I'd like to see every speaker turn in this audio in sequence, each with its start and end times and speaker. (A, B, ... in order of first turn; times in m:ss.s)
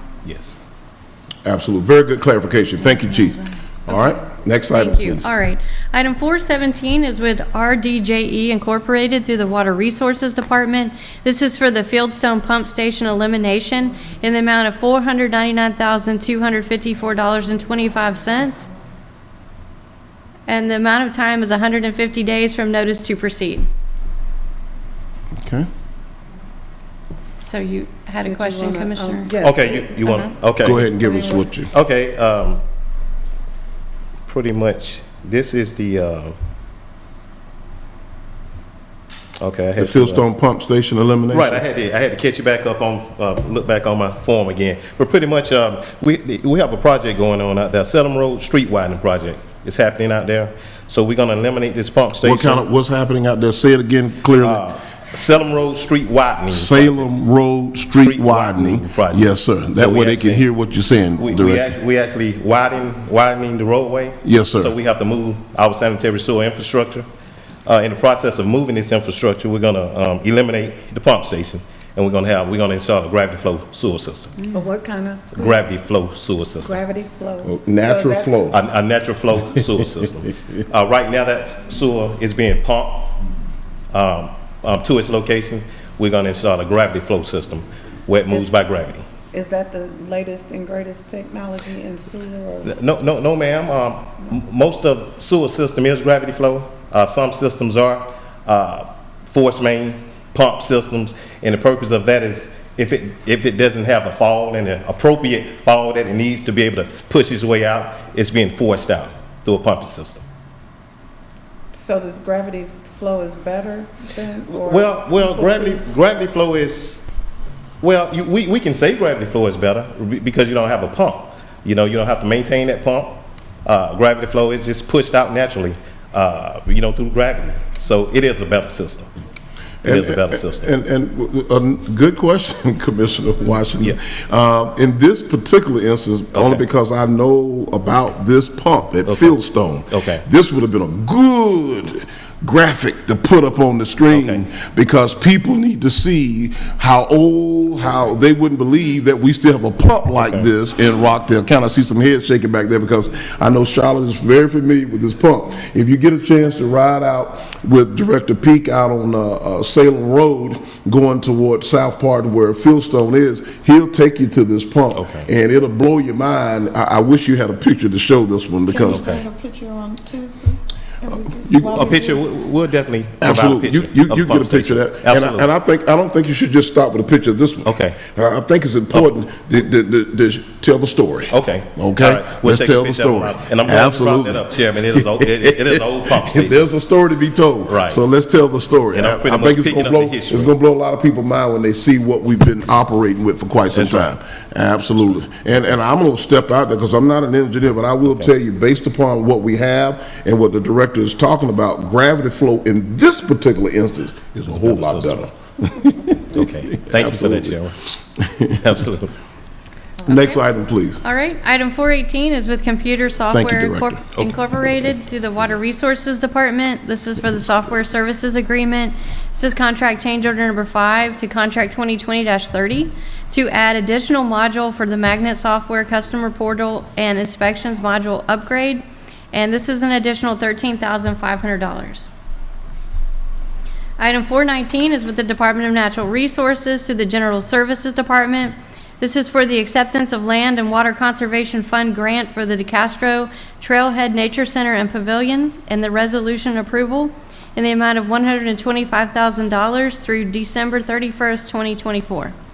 0:00.2-0:00.6 A
0:01.4-0:05.3 B
0:04.7-0:18.7 C
0:20.5-0:23.7 C
0:25.4-0:25.7 B
0:27.4-0:29.4 C
0:28.2-0:30.3 D
0:29.4-0:30.8 A
0:30.0-0:30.3 C
0:30.6-0:31.7 B
0:30.8-0:31.5 D
0:31.6-0:32.6 A
0:34.3-0:36.4 A
0:39.4-0:40.3 A
0:39.8-0:41.6 B
0:41.3-0:52.7 A
0:52.2-0:54.6 B
0:54.4-0:57.1 A
0:56.5-1:01.7 B
0:58.0-1:00.5 A
1:01.2-1:07.1 A
1:04.2-1:04.8 B
1:07.7-1:14.5 A
1:14.5-1:15.7 D
1:15.3-1:16.8 A
1:16.6-1:18.4 D
1:17.4-1:18.6 B
1:18.5-1:23.2 A
1:23.9-1:29.1 A
1:29.3-1:32.8 D
1:32.6-1:50.2 A
1:51.7-1:55.8 D
1:54.5-1:57.0 A
1:57.8-2:09.1 A
2:09.8-2:10.8 A
2:09.8-2:49.1 B
2:16.3-2:16.6 A
2:19.0-2:20.2 A
2:24.1-2:24.4 A
2:30.2-2:30.5 A
2:44.9-2:45.3 A
2:48.7-2:52.3 D
2:48.9-2:49.2 A
2:51.5-2:51.8 B
2:51.7-2:55.5 A
2:53.2-3:27.6 B
2:57.6-2:58.0 A
3:01.3-3:06.7 A
3:07.6-3:08.0 A
3:08.9-3:10.5 A
3:13.7-3:14.2 A
3:18.0-3:18.3 A
3:24.5-3:25.3 A
3:26.4-3:27.7 A
3:28.2-3:28.7 B
3:28.6-3:29.1 A
3:30.1-3:31.0 B
3:30.1-3:30.4 C
3:31.0-3:52.1 C
3:33.3-3:34.4 B
3:54.0-4:12.4 C